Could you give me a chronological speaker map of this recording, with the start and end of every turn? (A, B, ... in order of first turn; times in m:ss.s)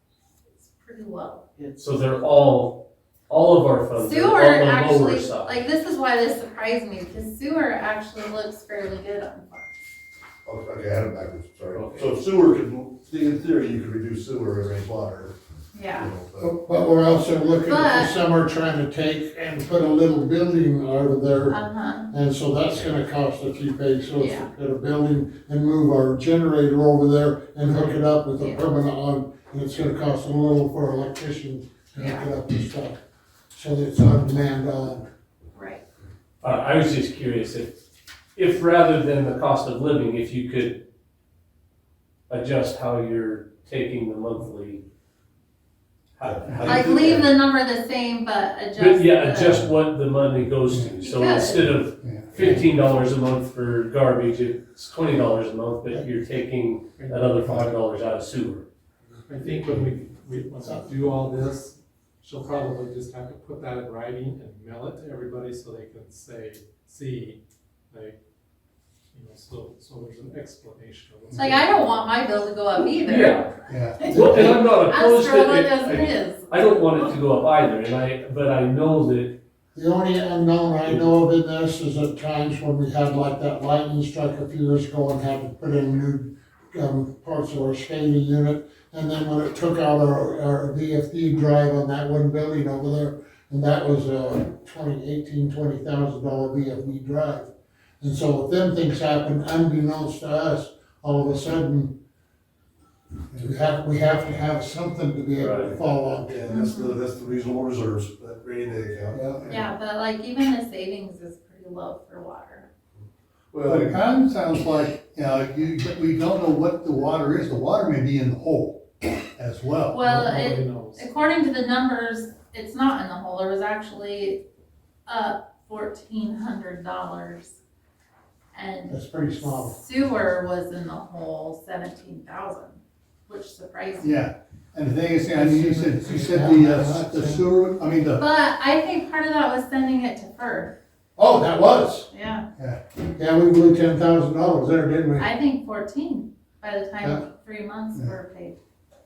0:00.6-0:01.4 A
0:01.8-0:05.6 B
0:04.0-0:09.7 A
0:10.4-0:15.4 C
0:11.7-0:12.1 B
0:15.7-0:16.1 A
0:15.9-0:16.5 C
0:16.4-0:33.0 D
0:17.6-0:18.2 A
0:21.5-0:22.1 A
0:24.2-0:24.5 A
0:28.3-0:28.6 A
0:32.0-0:32.3 A
0:33.5-0:35.1 D
0:35.6-0:35.8 A
0:36.4-0:37.8 B
0:38.4-0:40.8 B
0:42.3-0:44.8 B
0:46.2-0:47.3 B
0:46.2-0:46.8 C
0:46.5-0:46.8 E
0:46.6-0:49.6 A
0:48.8-0:58.6 B
0:50.7-0:51.0 E
0:51.0-0:51.6 A
0:51.8-0:52.5 E
0:57.0-0:57.6 F
0:59.3-1:07.4 F
1:00.6-1:00.9 D
1:07.9-1:08.2 F
1:09.1-1:12.1 F
1:11.3-1:16.7 A
1:13.0-1:13.6 B
1:13.7-1:14.1 E
1:14.0-1:14.7 D
1:14.1-1:19.4 B
1:19.8-1:41.9 D
1:43.3-1:46.7 D
1:45.4-1:45.8 B
1:46.2-1:49.6 C
1:46.5-1:47.0 A
1:49.1-1:49.6 D
1:49.5-1:52.7 A
1:53.5-1:54.0 C
1:53.6-1:58.8 E
1:59.4-2:00.3 E
1:59.9-2:04.4 A
2:00.1-2:01.1 F
2:05.1-2:07.6 A
2:08.5-2:14.1 A
2:08.9-2:09.8 D
2:14.0-2:18.2 E
2:15.3-2:17.5 D
2:18.2-2:20.7 A
2:21.2-2:22.1 D
2:22.1-2:22.4 A
2:23.0-2:25.3 D
2:25.2-2:28.6 A